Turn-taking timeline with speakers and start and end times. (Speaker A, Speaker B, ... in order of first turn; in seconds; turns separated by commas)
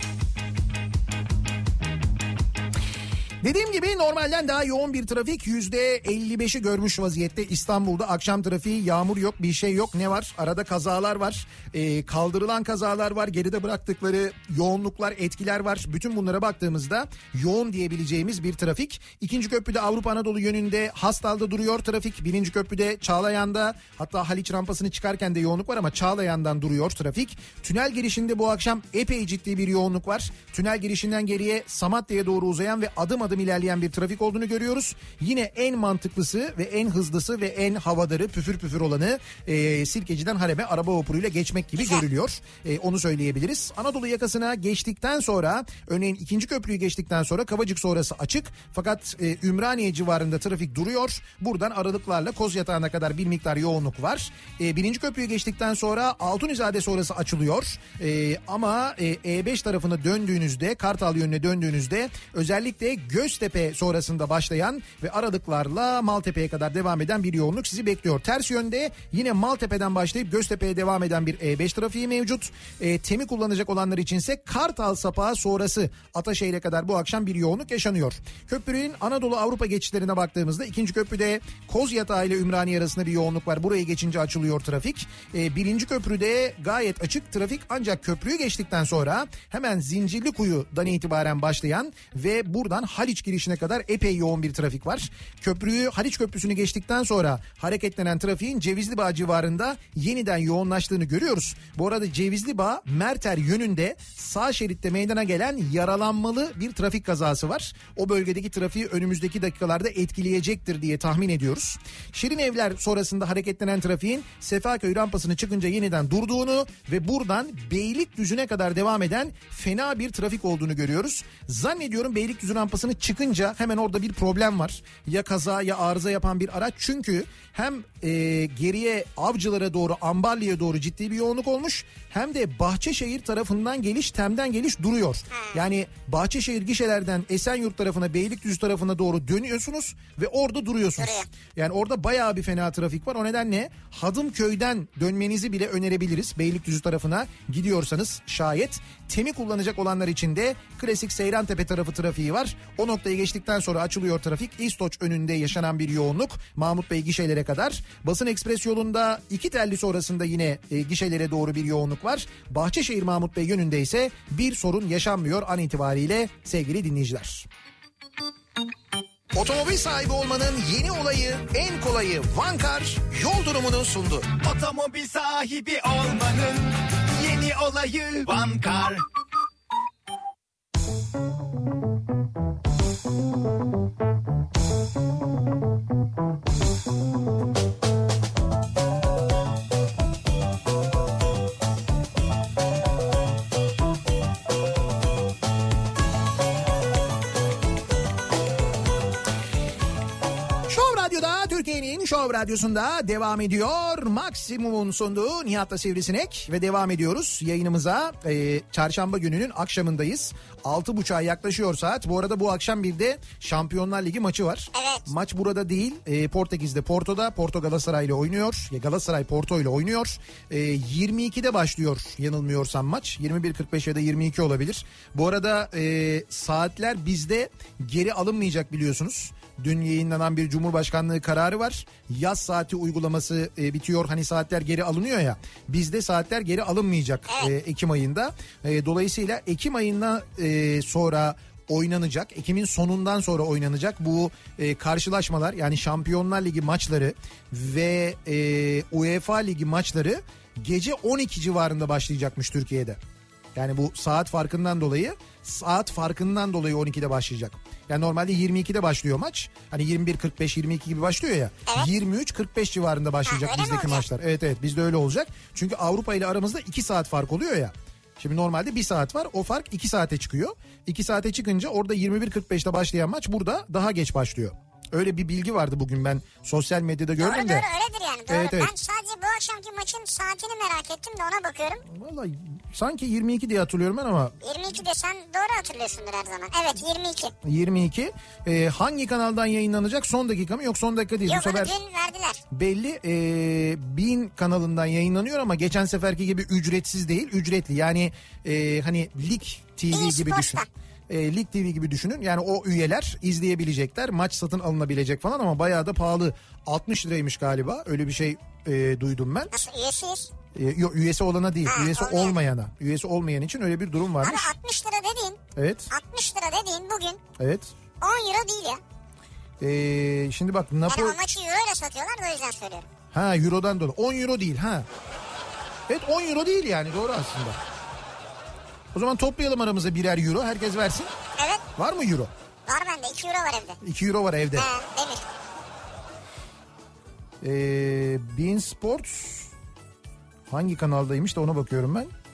Speaker A: 3.4-167.5, Speaker B: 41.8-42.0, Speaker B: 135.3-135.6, Speaker B: 141.0-141.3, Speaker A: 169.3-174.3, Speaker C: 174.4-179.0, Speaker A: 200.7-253.0, Speaker B: 214.7-215.1, Speaker B: 237.3-237.5, Speaker A: 253.5-277.7, Speaker B: 263.2-264.1, Speaker B: 277.2-281.8, Speaker A: 278.3-278.7, Speaker A: 281.9-284.3, Speaker B: 284.4-287.3, Speaker A: 287.4-291.7, Speaker B: 291.2-292.4, Speaker A: 292.5-309.5, Speaker B: 299.9-300.7, Speaker B: 309.5-310.3, Speaker A: 310.5-314.5, Speaker B: 311.6-312.4, Speaker B: 314.2-317.2, Speaker A: 315.5-315.9, Speaker A: 317.4-317.7, Speaker B: 318.0-318.8, Speaker A: 319.6-321.2, Speaker B: 320.9-322.9, Speaker A: 323.1-324.9, Speaker A: 325.9-327.6, Speaker A: 328.9-331.1, Speaker B: 331.4-331.6, Speaker A: 331.8-332.3, Speaker B: 332.7-333.8, Speaker A: 333.8-334.7, Speaker B: 334.5-335.2, Speaker A: 337.4-339.5, Speaker A: 340.5-342.1